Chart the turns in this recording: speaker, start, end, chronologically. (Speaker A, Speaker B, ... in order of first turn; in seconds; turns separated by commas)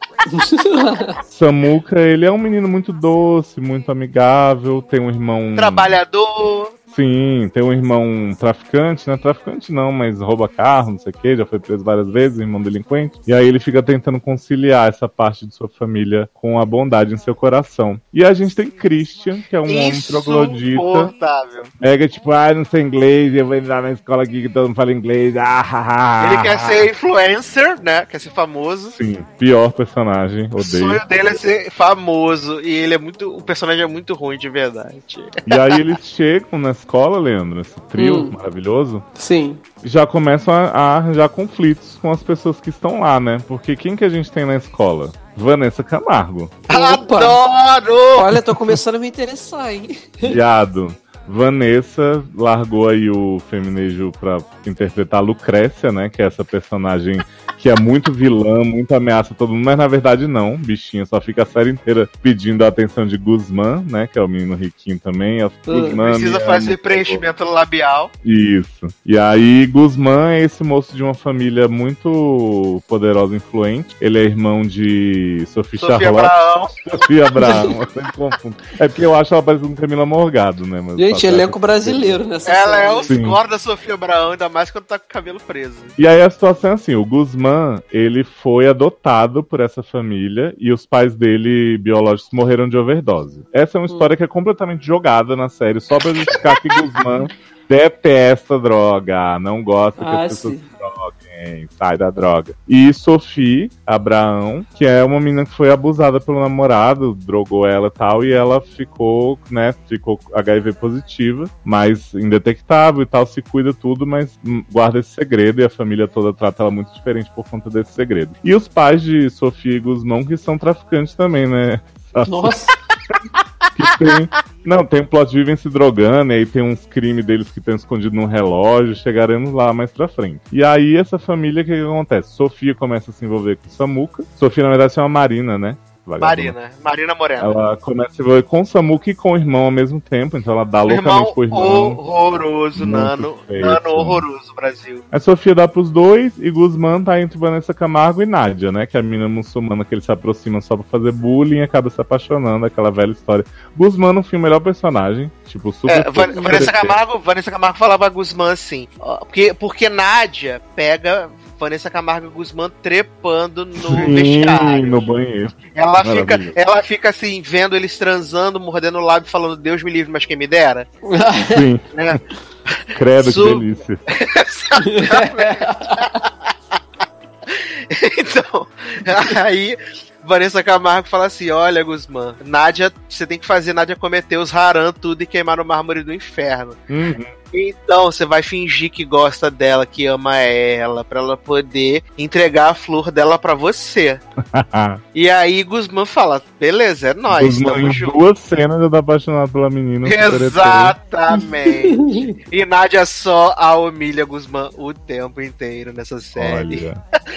Speaker A: 0.2-1.1, Speaker B: 1.2-6.0, Speaker C: 5.5-6.7, Speaker B: 6.9-21.1, Speaker C: 19.7-21.7, Speaker B: 21.8-26.8, Speaker C: 26.2-28.9, Speaker B: 28.9-31.0, Speaker C: 30.6-35.8, Speaker B: 35.4-39.0, Speaker A: 38.0-38.3, Speaker A: 39.2-39.6, Speaker B: 39.8-46.6, Speaker C: 46.7-48.4, Speaker A: 46.7-47.4, Speaker A: 48.1-50.4, Speaker B: 50.2-67.2, Speaker A: 65.7-66.0, Speaker C: 66.0-68.1, Speaker B: 68.2-76.3, Speaker C: 75.8-77.0, Speaker B: 76.8-82.2, Speaker A: 77.4-77.7, Speaker A: 81.0-83.1, Speaker C: 82.5-85.9, Speaker B: 83.0-83.4, Speaker B: 86.0-122.5, Speaker A: 100.0-100.7, Speaker A: 122.2-122.7, Speaker B: 123.8-136.5, Speaker C: 136.2-137.6, Speaker B: 137.4-142.0, Speaker C: 140.9-145.0, Speaker B: 142.8-144.2, Speaker B: 145.1-157.0, Speaker C: 155.9-165.1, Speaker A: 156.3-156.7, Speaker B: 163.8-166.6, Speaker C: 165.7-170.9, Speaker A: 171.1-171.6, Speaker B: 171.5-172.2, Speaker C: 171.9-176.1, Speaker B: 172.9-174.0, Speaker A: 174.8-176.2, Speaker C: 177.5-186.8, Speaker B: 186.9-187.3, Speaker C: 187.5-194.2, Speaker B: 194.5-195.0, Speaker C: 195.1-198.2, Speaker B: 197.3-200.9, Speaker C: 200.0-206.9, Speaker A: 201.3-202.4, Speaker B: 206.3-207.0